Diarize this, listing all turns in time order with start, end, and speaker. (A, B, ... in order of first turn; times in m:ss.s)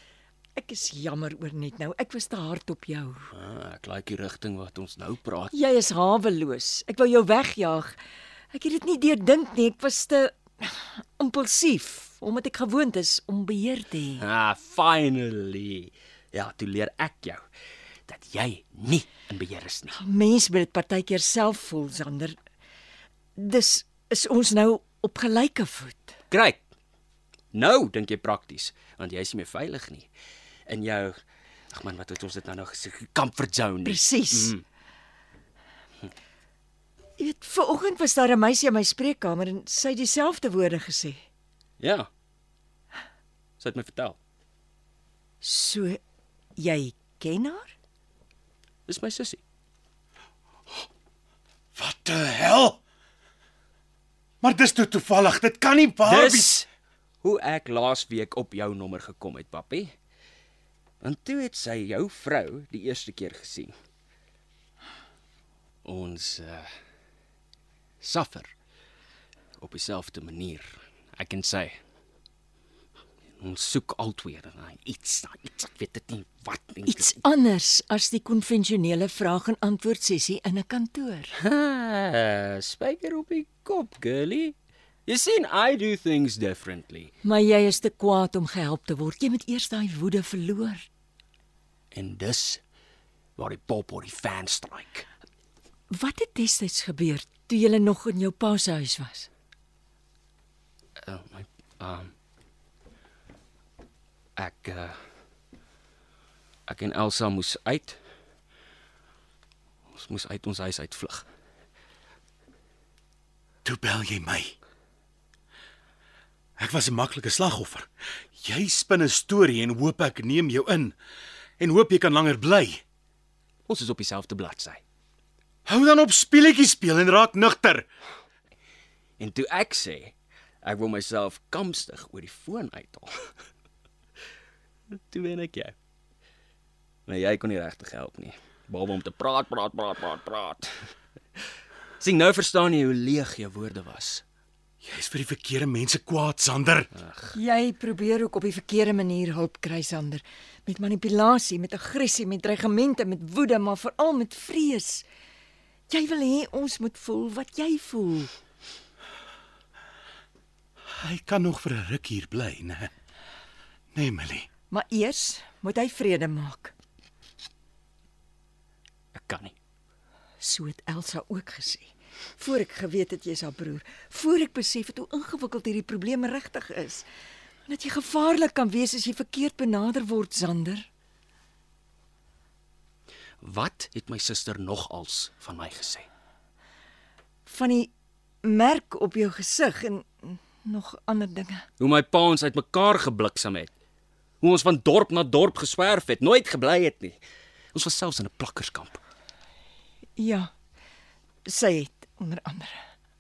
0:00.6-0:03.3 A
0:03.3-0:05.5 B
0:05.5-0:08.0 A
0:08.5-0:14.2 A
0:14.2-0:17.4 B
0:18.1-0:20.0 B
0:20.0-0:22.4 A
0:23.4-0:26.2 A
0:26.3-0:26.6 B
0:27.5-0:30.1 B
0:30.7-0:31.2 B
0:31.7-0:34.6 B
0:33.8-0:34.5 A
0:37.2-0:41.2 A
0:41.8-0:42.1 B
0:43.6-0:44.2 B
0:45.4-0:46.0 A
0:46.6-0:47.7 A
0:48.9-0:49.4 B
0:51.8-0:52.8 C
0:54.4-0:56.6 C
0:56.0-0:56.7 B
0:57.2-0:59.9 B
1:01.0-1:03.7 B
1:05.8-1:06.7 B
1:08.0-1:08.5 B
1:09.6-1:11.8 B
1:13.4-1:17.2 B
1:16.9-1:21.3 A
1:21.4-1:24.6 B
1:25.1-1:27.1 B
1:27.2-1:30.8 A
1:31.9-1:32.6 B
1:33.4-1:35.1 B
1:35.9-1:39.3 A
1:41.0-1:42.1 B
1:44.4-1:45.0 B
1:46.7-1:48.0 B
1:49.9-1:51.3 B
1:53.6-1:54.6 C
1:56.6-2:01.0 C
2:01.6-2:02.8 C
2:03.7-2:04.8 B
2:05.7-2:07.9 C
2:09.2-2:13.3 B
2:14.9-2:15.7 B
2:17.1-2:20.9 B
2:22.0-2:24.2 B
2:24.8-2:26.9 C
2:27.0-2:27.4 B
2:27.3-2:35.0 A
2:35.9-2:38.3 A
2:41.0-2:42.9 C
2:43.9-2:44.5 C
2:44.7-2:46.7 A
2:49.1-2:49.6 B
2:50.4-2:57.0 A
2:57.7-3:00.9 A
3:03.4-3:06.1 B
3:07.5-3:07.9 A
3:08.4-3:11.6 A
3:11.8-3:13.7 B
3:14.4-3:17.2 B
3:17.7-3:19.0 B
3:20.2-3:20.5 A
3:21.5-3:22.8 A